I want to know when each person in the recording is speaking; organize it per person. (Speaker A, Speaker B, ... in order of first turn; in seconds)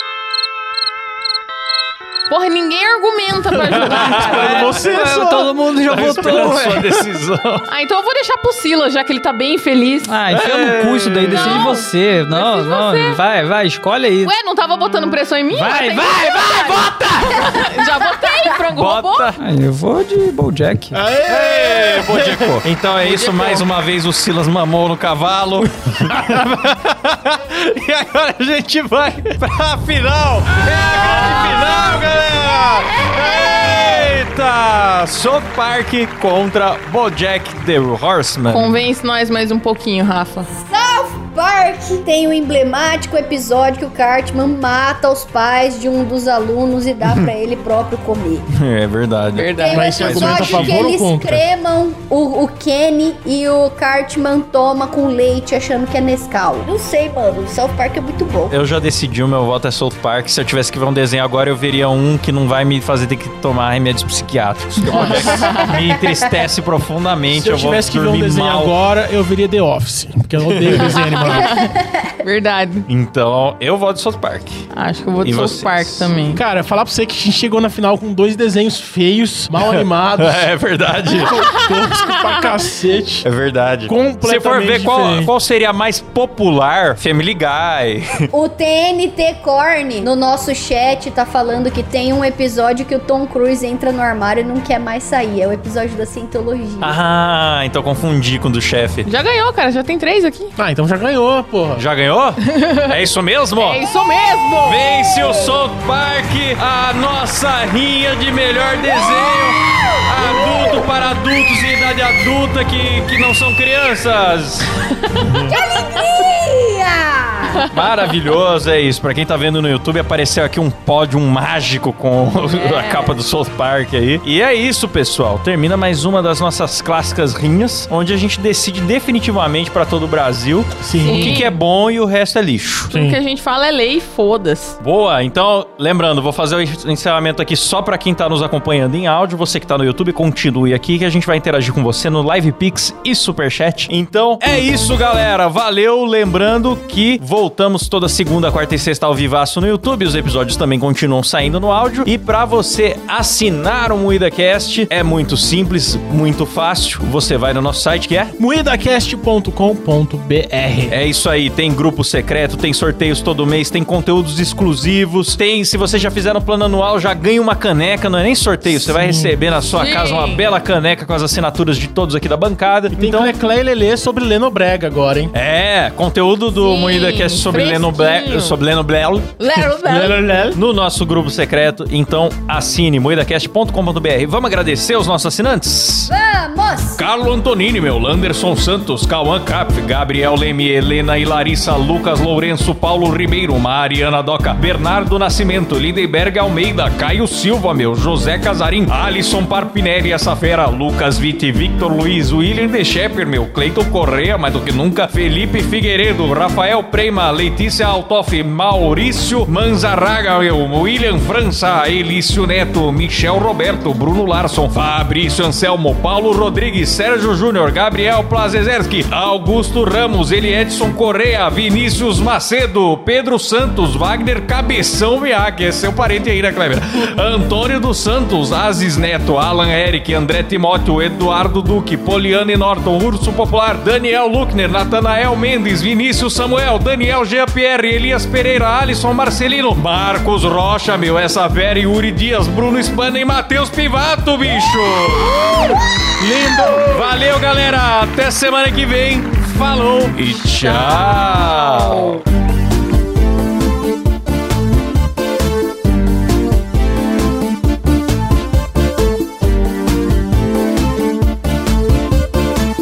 Speaker A: 2.3-4.8, 7.7-10.2, 11.3-13.2, 14.2-19.3, 23.0-23.6, 38.5-40.5, 49.4-50.0, 64.9-65.7, 70.8-72.8, 74.7-76.4, 81.7-82.6, 99.0-100.5, 102.5-103.0, 103.6-104.8, 117.5-117.7, 122.5-123.2, 131.0-131.6, 132.9-134.8, 169.7-170.5, 176.5-178.6, 179.4-180.3
Speaker B: 3.6-5.1, 5.8-7.7, 10.3-11.7, 18.7-19.4, 21.3-38.7, 47.0-47.3, 48.5-50.8, 58.5-68.7, 70.5-70.9, 72.9-74.6, 75.2-76.1, 79.5-81.4, 83.2-88.3, 96.8-99.1, 101.8-103.9, 104.6-115.5, 117.7-132.9, 134.8-158.3, 160.9-173.3, 175.3-179.4, 180.5-186.1, 187.0-245.8, 246.6-252.2
Speaker C: 3.8-5.6, 20.9-22.6, 49.7-51.5, 67.3-71.6, 76.3-80.5, 81.0-83.3, 83.9-85.3, 100.6-101.8, 130.8-131.5, 132.9-133.2, 158.4-161.0, 168.7-169.4, 172.9-175.3, 179.8-180.6, 246.2-247.1
Speaker D: 4.8-7.0, 10.0-14.3, 15.5-17.6, 19.4-21.0
Speaker E: 40.6-48.5, 49.6-58.5, 65.1-66.4, 71.4-72.1, 88.3-96.9, 115.5-117.7, 186.1-187.1